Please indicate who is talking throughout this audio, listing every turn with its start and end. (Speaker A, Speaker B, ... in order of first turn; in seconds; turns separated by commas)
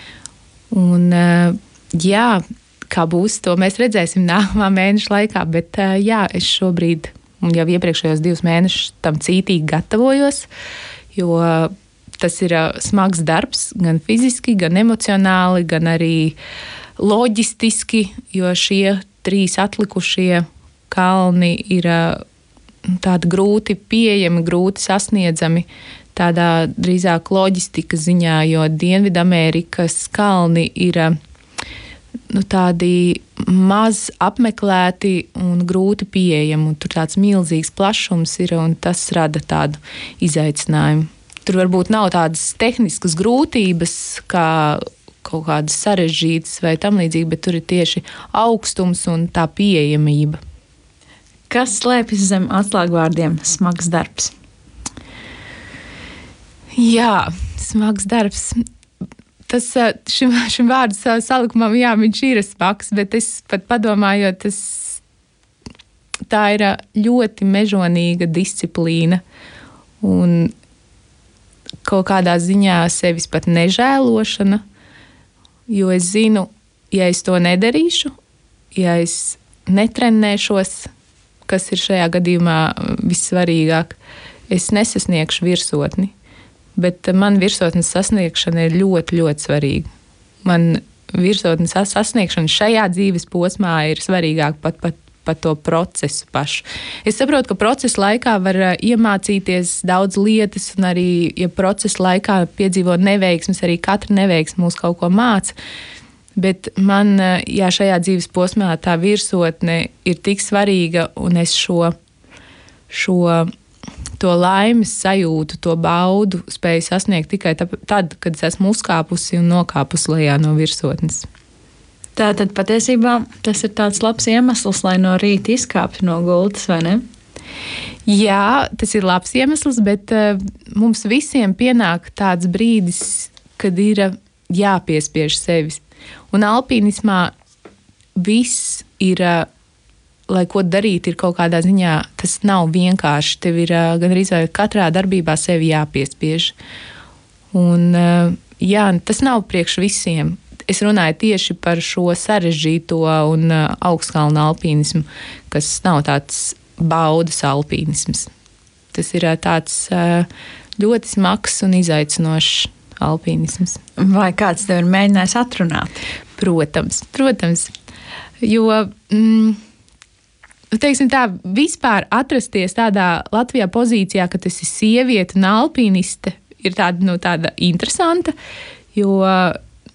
Speaker A: 0.7-10.5, Speaker A: 11.1-16.4, Speaker A: 17.0-22.2, Speaker A: 22.9-31.1, Speaker A: 32.3-50.4, Speaker B: 51.5-54.3, Speaker A: 56.8-58.6, Speaker A: 59.5-65.0, Speaker A: 66.3-69.2, Speaker A: 70.0-70.5, Speaker A: 71.8-74.6, Speaker A: 75.7-78.1, Speaker A: 78.7-80.9, Speaker A: 81.5-84.0, Speaker A: 84.5-86.1, Speaker A: 86.8-89.8, Speaker A: 90.5-105.5, Speaker A: 106.4-111.9, Speaker A: 112.9-113.5, Speaker A: 114.2-121.3, Speaker B: 122.2-127.0, Speaker A: 128.1-135.8, Speaker A: 136.3-137.3, Speaker A: 138.2-139.5, Speaker A: 140.3-146.5, Speaker A: 147.5-158.3, Speaker A: 158.9-163.8, Speaker B: 164.0-166.0, Speaker A: 166.4-167.7, Speaker A: 168.4-169.6, Speaker A: 170.7-178.3, Speaker A: 178.9-179.6